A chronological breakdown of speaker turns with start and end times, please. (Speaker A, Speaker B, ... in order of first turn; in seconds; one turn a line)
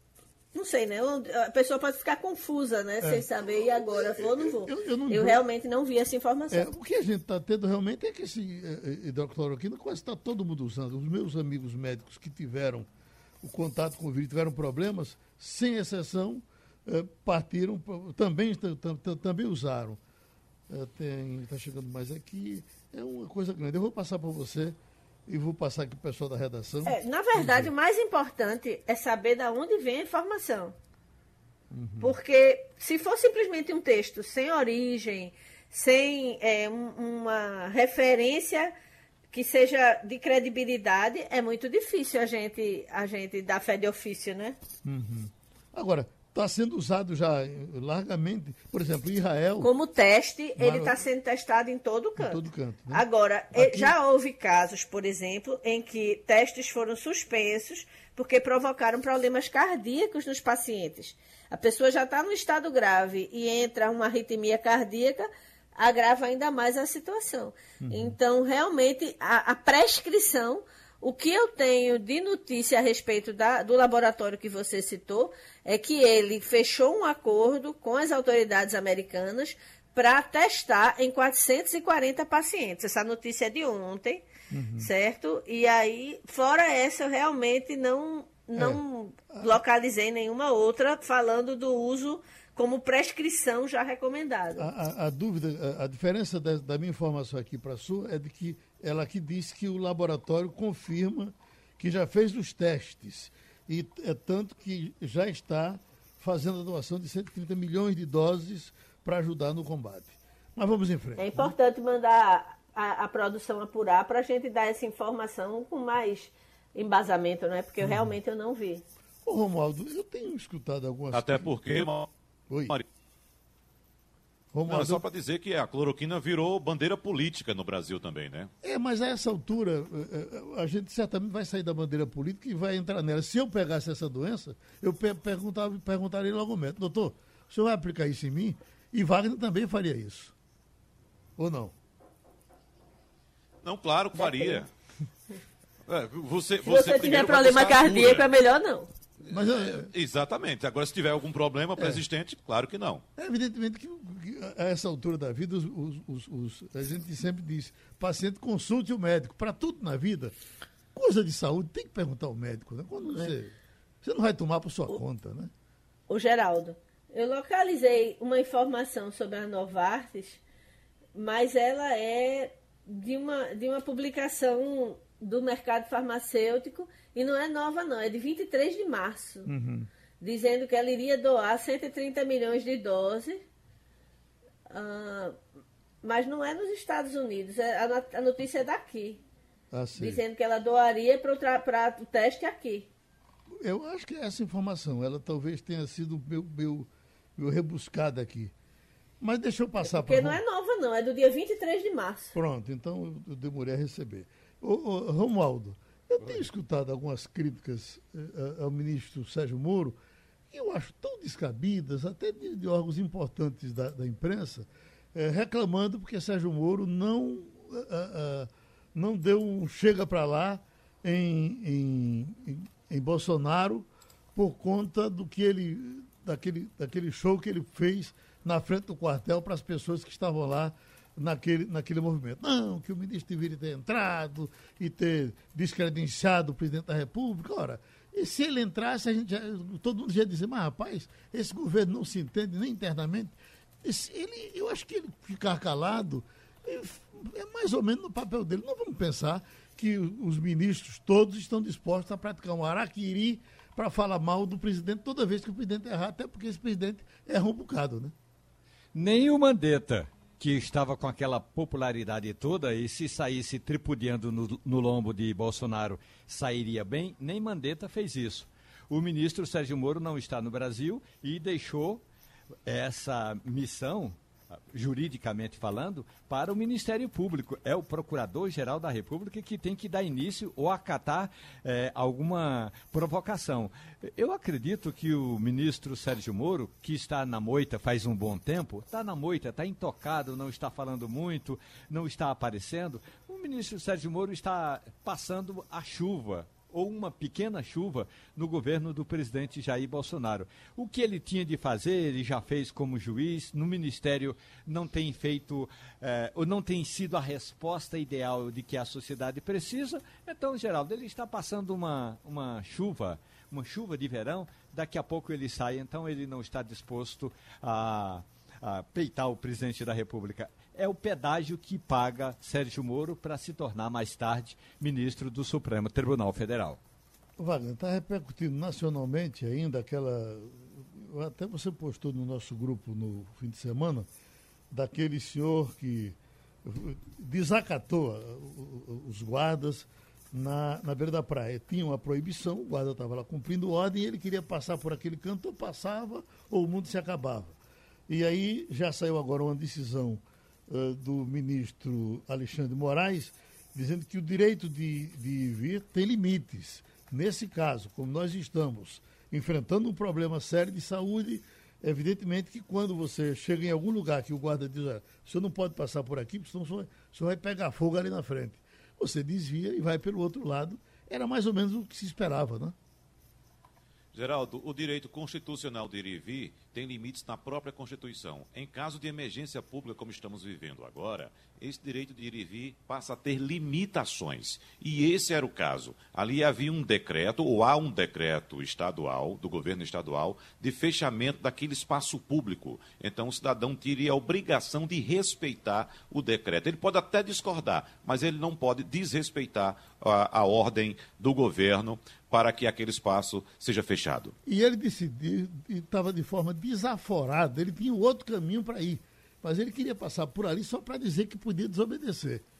Speaker A: 0.5-6.7
Speaker B: 3.0-5.4
Speaker B: 6.5-12.9
Speaker B: 13.4-20.0
Speaker B: 20.7-27.7
Speaker A: 26.8-30.7
Speaker B: 31.7-32.1
Speaker A: 32.0-38.7
Speaker A: 39.3-44.6
Speaker B: 44.8-49.7
Speaker A: 49.6-52.4
Speaker B: 50.6-51.0
Speaker B: 52.2-53.9
Speaker A: 52.9-84.2
Speaker B: 67.8-68.2
Speaker B: 84.5-84.9
Speaker A: 84.8-94.7
Speaker B: 88.5-88.8
Speaker B: 89.3-89.6
Speaker B: 94.5-111.5
Speaker A: 111.2-118.8
Speaker B: 117.8-118.1
Speaker B: 119.2-121.9
Speaker C: 121.1-122.1
Speaker B: 122.5-122.8
Speaker B: 124.5-125.0
Speaker C: 124.7-128.5
Speaker B: 128.6-140.3
Speaker B: 141.4-141.7
Speaker C: 143.6-144.7
Speaker A: 144.2-144.6
Speaker C: 145.9-148.3
Speaker A: 146.6-148.9
Speaker C: 149.2-153.0
Speaker B: 149.3-149.9
Speaker B: 151.8-152.0
Speaker B: 153.2-160.3
Speaker B: 160.9-165.5
Speaker A: 166.1-170.4
Speaker A: 171.1-179.5
Speaker B: 179.4-179.9
Speaker A: 180.2-183.4
Speaker A: 184.7-185.3
Speaker A: 186.0-189.2
Speaker B: 189.7-190.2
Speaker A: 189.9-192.9
Speaker B: 193.6-198.5
Speaker B: 199.2-200.4
Speaker A: 199.8-202.3
Speaker B: 202.3-210.0
Speaker B: 210.5-258.1
Speaker D: 258.9-272.0
Speaker D: 272.6-274.1
Speaker D: 274.7-326.8
Speaker B: 327.4-334.1
Speaker B: 334.7-347.6
Speaker B: 348.1-372.8
Speaker C: 374.1-404.3
Speaker B: 404.4-412.4